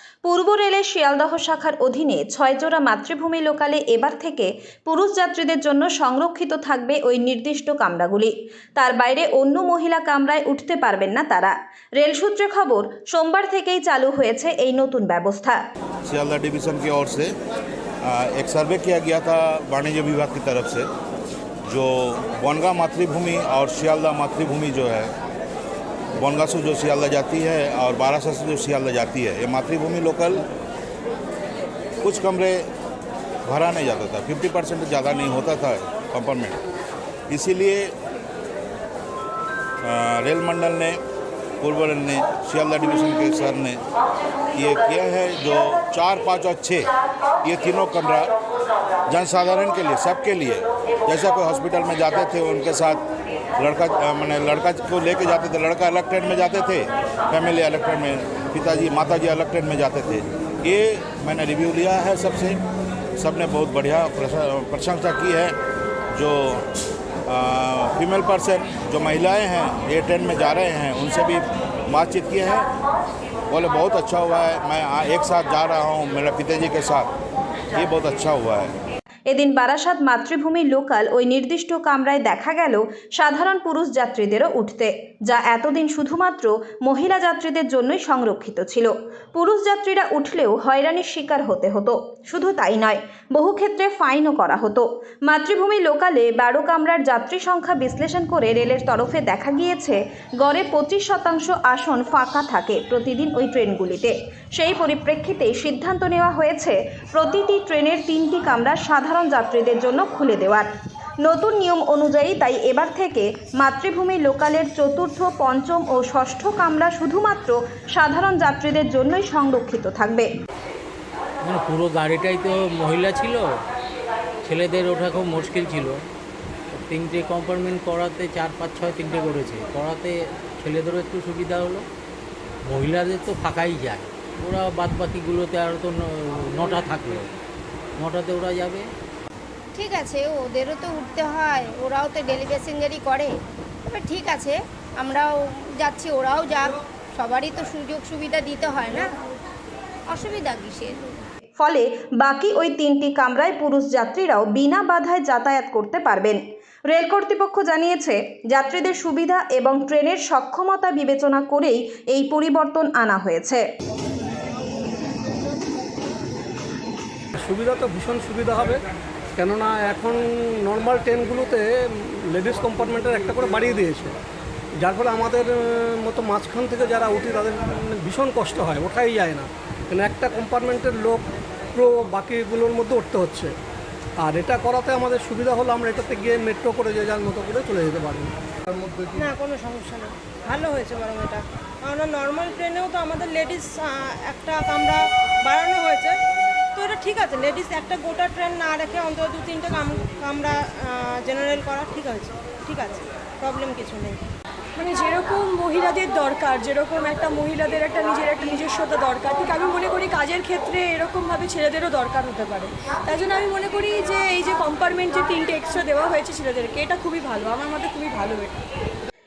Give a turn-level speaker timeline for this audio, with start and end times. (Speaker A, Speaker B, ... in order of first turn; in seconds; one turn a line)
Speaker A: 0.2-15.6
Speaker B: 16.1-17.3
Speaker B: 18.0-20.9
Speaker B: 21.7-25.1
Speaker B: 26.2-30.4
Speaker B: 32.0-32.7
Speaker B: 33.4-36.6
Speaker B: 37.3-37.9
Speaker B: 39.8-41.0
Speaker B: 41.6-43.8
Speaker B: 44.5-46.9
Speaker B: 47.4-48.3
Speaker B: 49.1-53.0
Speaker B: 53.6-62.6
Speaker B: 63.2-65.6
Speaker B: 66.1-66.6
Speaker B: 67.3-72.7
Speaker B: 73.5-77.1
Speaker B: 77.7-78.7
Speaker A: 79.3-110.7
Speaker A: 111.2-120.3
Speaker C: 121.4-123.4
Speaker C: 124.4-126.0
Speaker C: 126.7-131.8
Speaker C: 132.7-137.3
Speaker C: 138.0-138.9
Speaker D: 139.7-149.1
Speaker D: 150.1-151.0
Speaker A: 151.6-163.6
Speaker E: 167.4-168.8
Speaker E: 169.3-174.2
Speaker E: 174.8-183.5
Speaker E: 184.2-189.1
Speaker F: 189.2-196.2
Speaker F: 196.8-204.2
Speaker G: 204.8-218.5